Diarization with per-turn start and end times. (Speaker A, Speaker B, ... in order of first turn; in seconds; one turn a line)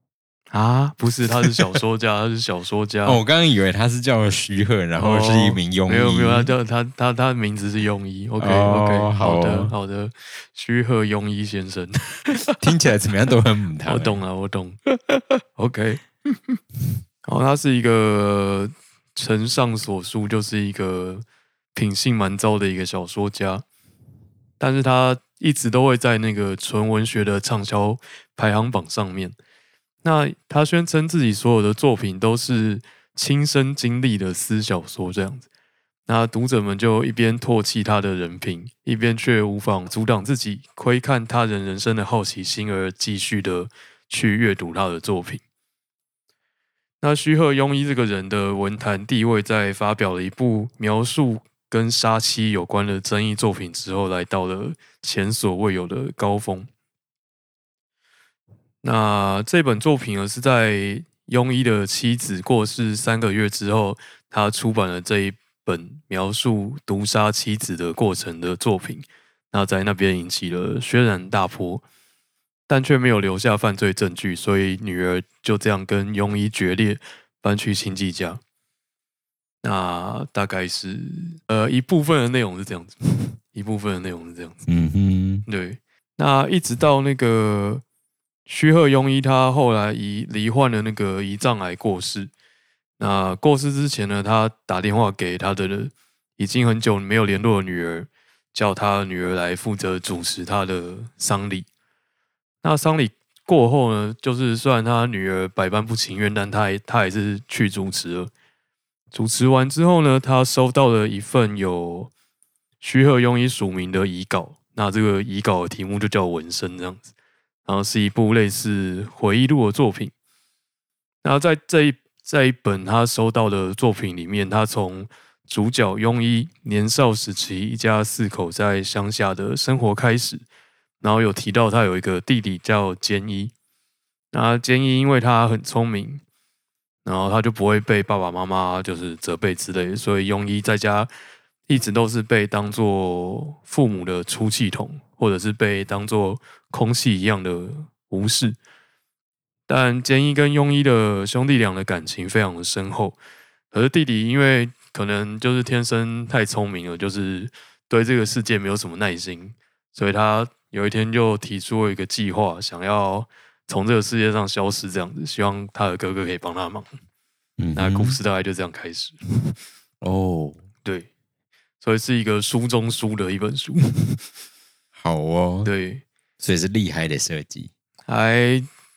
Speaker A: 0.5-3.2
Speaker B: 1.4-1.8
Speaker B: 3.0-6.5
Speaker A: 5.0-12.4
Speaker B: 8.4-9.7
Speaker B: 12.6-14.2
Speaker A: 13.8-16.6
Speaker A: 17.2-23.6
Speaker A: 24.6-29.4
Speaker A: 30.0-35.5
Speaker A: 36.1-45.4
Speaker A: 47.0-56.7
Speaker A: 58.8-71.8
Speaker A: 72.7-78.4
Speaker A: 79.6-84.6
Speaker B: 84.7-85.5
Speaker A: 85.5-87.8
Speaker A: 88.5-92.3
Speaker A: 93.0-101.7
Speaker A: 102.6-108.3
Speaker A: 109.1-112.1
Speaker A: 112.8-117.1
Speaker A: 117.7-120.1
Speaker A: 121.2-130.4
Speaker A: 131.0-133.5
Speaker A: 134.3-136.2
Speaker A: 137.0-141.1
Speaker A: 141.7-148.6
Speaker A: 149.7-153.2
Speaker A: 153.7-166.9
Speaker B: 167.6-168.2
Speaker A: 167.8-169.2
Speaker B: 170.0-170.6
Speaker A: 170.8-171.1
Speaker A: 171.8-174.2
Speaker B: 174.9-175.7
Speaker A: 175.6-176.0
Speaker B: 176.4-177.7
Speaker A: 178.1-178.7